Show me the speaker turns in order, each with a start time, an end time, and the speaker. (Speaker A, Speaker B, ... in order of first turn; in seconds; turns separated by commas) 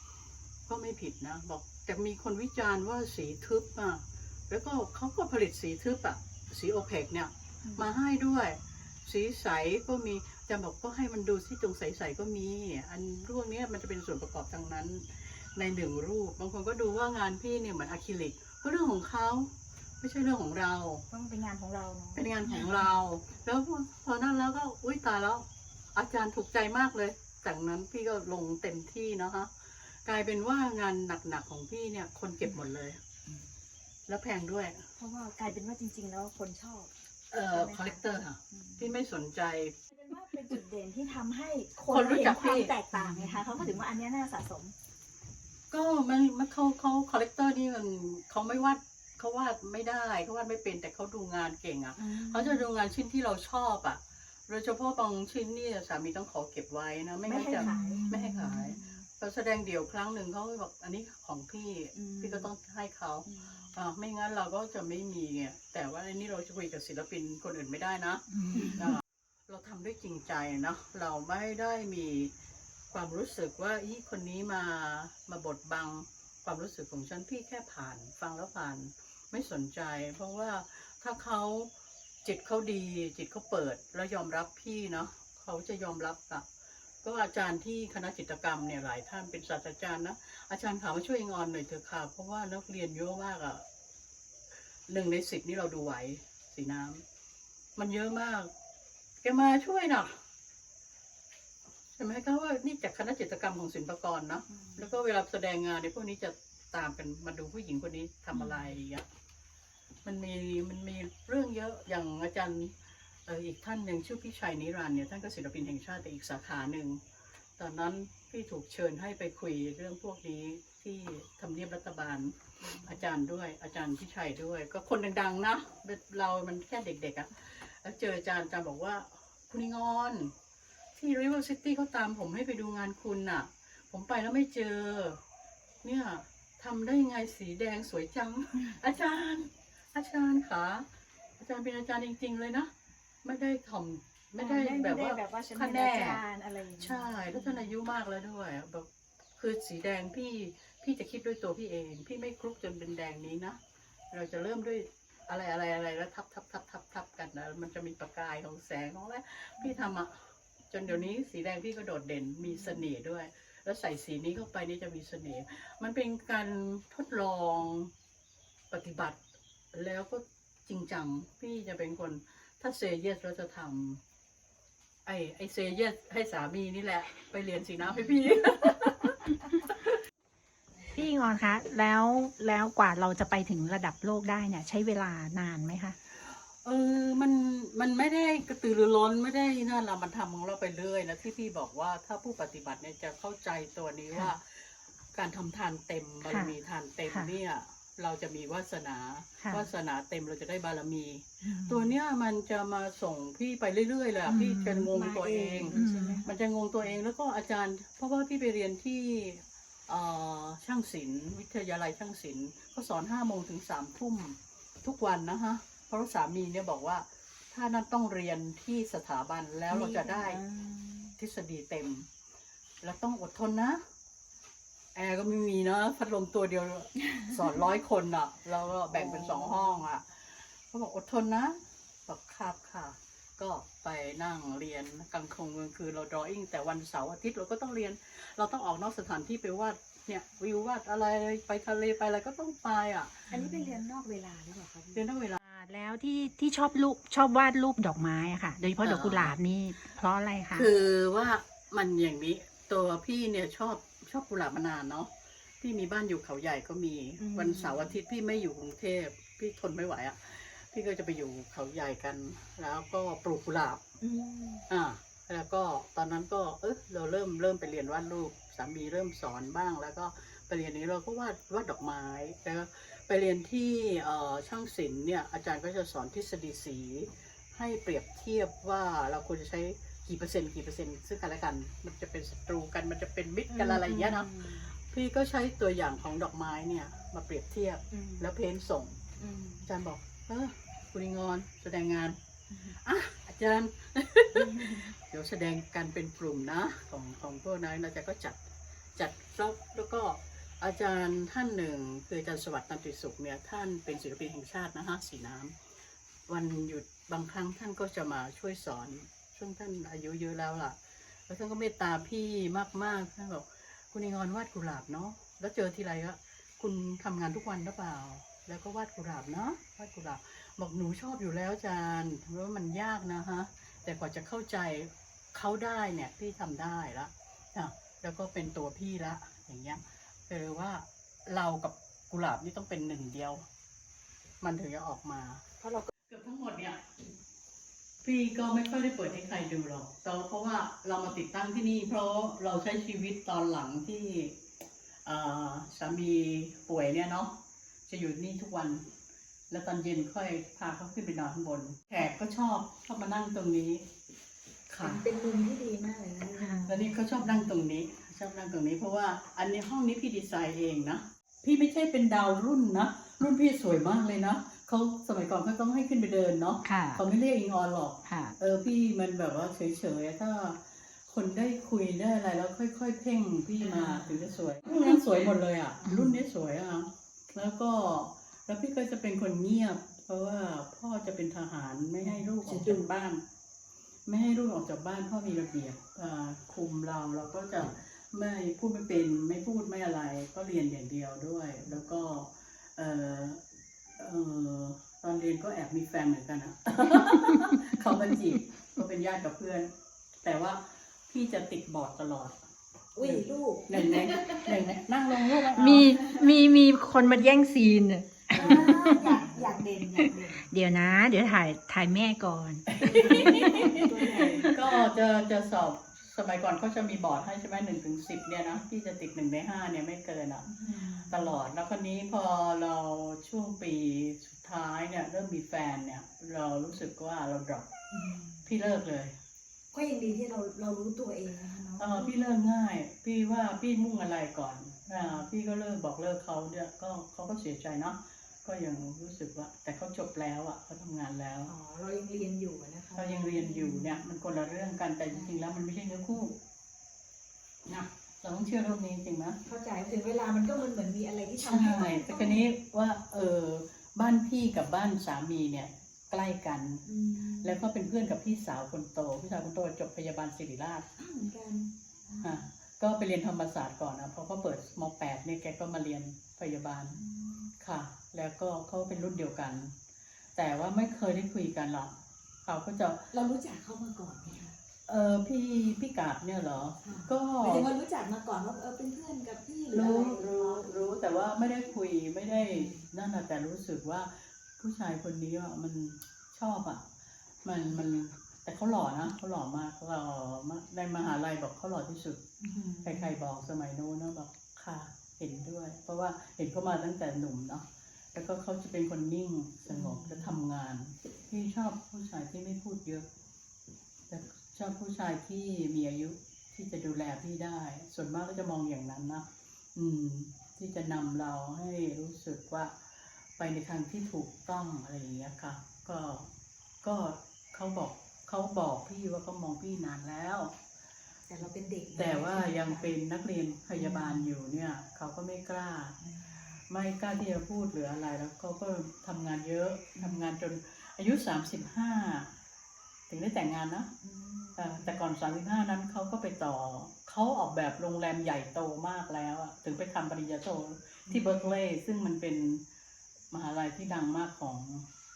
Speaker A: 0.7-21.0, Speaker B: 21.1-22.2, Speaker A: 22.1-29.5, Speaker A: 30.0-33.0, Speaker A: 34.1-34.9, Speaker B: 35.0-36.9, Speaker A: 37.3-39.8, Speaker B: 37.5-38.9, Speaker B: 39.9-44.7, Speaker A: 41.9-42.7, Speaker C: 42.9-43.7, Speaker A: 45.7-72.3, Speaker B: 52.0-52.6, Speaker B: 57.2-58.0, Speaker C: 57.5-58.8, Speaker B: 58.8-59.0, Speaker B: 61.9-62.5, Speaker B: 63.2-63.7, Speaker C: 68.3-69.0, Speaker B: 68.5-68.9, Speaker A: 72.9-81.7, Speaker A: 82.2-86.5, Speaker A: 87.0-93.7, Speaker A: 94.9-97.0, Speaker A: 97.8-98.5, Speaker A: 99.2-100.2, Speaker A: 102.0-109.0, Speaker A: 110.0-112.7, Speaker A: 113.2-117.0, Speaker A: 117.6-130.3, Speaker A: 130.9-135.2, Speaker A: 135.8-140.9, Speaker A: 141.4-142.7, Speaker A: 143.2-146.2, Speaker B: 144.4-147.7, Speaker A: 146.8-153.6, Speaker A: 154.1-167.9, Speaker A: 168.7-174.0, Speaker A: 175.0-179.7, Speaker C: 180.9-185.9, Speaker A: 186.2-220.4, Speaker C: 196.2-196.5, Speaker C: 199.4-199.7, Speaker B: 201.5-201.8, Speaker C: 204.3-204.9, Speaker B: 204.9-206.3, Speaker C: 205.7-206.2, Speaker B: 219.7-221.1, Speaker A: 221.2-222.1, Speaker A: 222.8-223.9, Speaker A: 224.9-243.3, Speaker B: 228.9-229.8, Speaker B: 243.3-245.0, Speaker A: 244.9-245.4, Speaker C: 245.4-250.7, Speaker A: 248.6-249.4, Speaker A: 250.5-263.8, Speaker B: 257.2-257.9, Speaker B: 264.0-264.6, Speaker A: 264.7-289.0, Speaker B: 283.5-284.7, Speaker B: 287.9-288.2, Speaker B: 289.2-289.6, Speaker A: 289.6-292.1, Speaker A: 292.7-298.4, Speaker B: 294.4-294.9, Speaker A: 298.9-305.6, Speaker A: 306.3-333.4, Speaker A: 334.4-335.4, Speaker B: 335.6-335.9, Speaker A: 336.0-336.8, Speaker A: 338.0-344.4, Speaker A: 345.0-348.9, Speaker A: 349.5-353.9, Speaker A: 354.7-355.0, Speaker B: 354.8-356.9, Speaker C: 356.4-356.7, Speaker A: 356.7-383.2, Speaker C: 366.6-367.0, Speaker C: 368.1-368.4, Speaker B: 373.6-374.9, Speaker B: 382.0-382.9, Speaker A: 384.1-393.4, Speaker A: 393.9-399.7, Speaker C: 397.2-397.6, Speaker A: 400.2-402.4, Speaker B: 402.9-404.5, Speaker A: 403.0-406.1, Speaker C: 405.5-409.1, Speaker B: 406.0-406.3, Speaker B: 408.3-410.5, Speaker A: 408.3-409.4, Speaker C: 410.0-414.7, Speaker A: 412.7-420.5, Speaker B: 412.7-414.5, Speaker B: 420.5-421.4, Speaker A: 421.0-427.7, Speaker B: 427.9-428.4, Speaker A: 428.4-429.1, Speaker B: 429.7-432.2, Speaker A: 431.8-441.5, Speaker B: 441.5-444.0, Speaker A: 442.9-446.4, Speaker A: 447.6-449.4, Speaker B: 449.4-452.4, Speaker A: 451.4-456.8, Speaker B: 456.8-457.6, Speaker A: 457.4-460.9, Speaker B: 461.0-462.5, Speaker A: 462.2-467.0, Speaker B: 466.9-467.5, Speaker A: 467.6-469.7, Speaker A: 470.3-473.0, Speaker B: 473.1-474.6, Speaker A: 474.9-477.7, Speaker B: 476.8-480.9, Speaker A: 479.7-486.9, Speaker B: 482.3-482.9, Speaker A: 487.4-492.2, Speaker B: 492.4-493.1, Speaker A: 492.8-503.1, Speaker B: 499.7-500.3, Speaker A: 504.1-512.8, Speaker A: 513.4-516.3, Speaker A: 516.8-520.6, Speaker B: 521.3-523.0, Speaker A: 522.0-526.0, Speaker B: 523.7-524.3, Speaker B: 526.0-526.5, Speaker A: 526.7-532.3, Speaker B: 529.9-530.2, Speaker A: 533.1-533.9, Speaker B: 534.0-535.0, Speaker A: 534.5-542.6, Speaker B: 541.1-541.5, Speaker A: 543.3-544.9